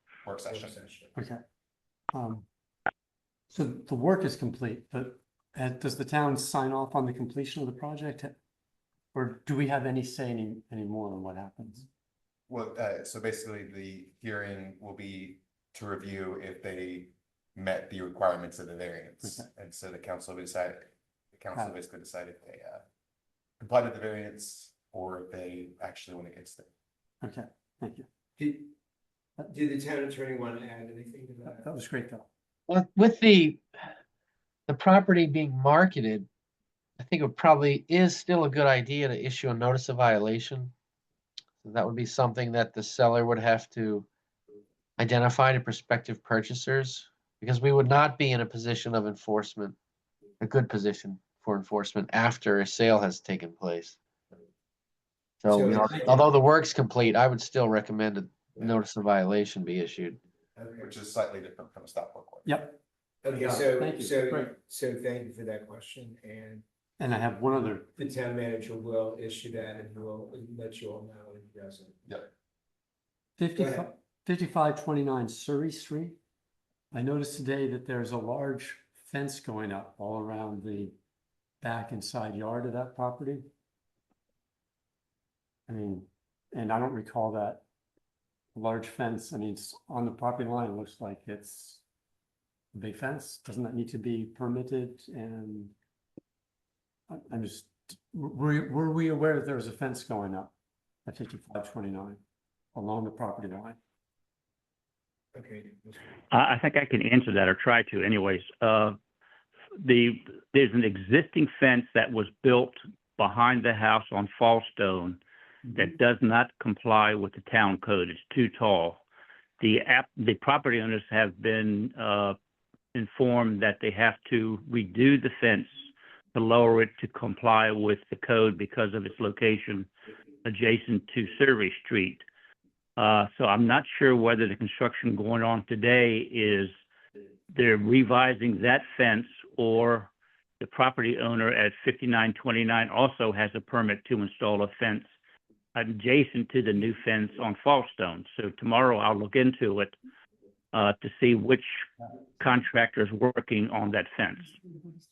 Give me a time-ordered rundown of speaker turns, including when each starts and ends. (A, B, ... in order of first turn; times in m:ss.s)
0:00.2-0:00.8 A
0:00.5-0:01.1 B
0:01.2-0:01.4 C
0:02.1-0:02.5 C
0:03.5-0:08.4 C
0:09.1-0:11.9 C
0:12.5-0:22.8 A
0:19.2-0:19.5 C
0:23.6-0:26.7 A
0:27.2-0:28.1 C
0:28.4-0:28.7 B
0:29.4-0:31.7 B
0:31.4-0:32.3 C
0:32.7-0:33.7 D
0:34.7-0:36.3 D
0:37.0-0:40.7 D
0:41.6-0:44.1 D
0:45.0-0:49.8 D
0:50.4-0:54.0 D
0:55.4-1:00.2 D
0:55.5-0:56.3 B
1:00.6-1:00.9 B
1:00.8-1:02.5 A
1:02.5-1:04.5 C
1:03.2-1:06.6 B
1:07.0-1:07.9 C
1:08.0-1:12.0 B
1:13.4-1:16.2 C
1:13.6-1:13.9 B
1:16.9-1:21.0 C
1:21.6-1:23.5 C
1:25.7-1:27.6 C
1:28.5-1:31.8 C
1:32.7-1:35.7 C
1:37.1-1:40.5 C
1:41.1-1:42.2 C
1:42.8-1:43.8 C
1:45.4-1:46.0 B
1:46.3-1:49.0 E
1:49.8-1:55.2 E
1:55.7-1:59.0 E
1:59.6-2:02.4 E
2:02.9-2:05.7 E
2:06.3-2:09.9 E
2:10.4-2:12.2 E
2:13.0-2:16.7 E
2:17.5-2:25.1 E
2:25.7-2:30.0 E
2:30.7-2:31.8 E
2:32.4-2:34.6 E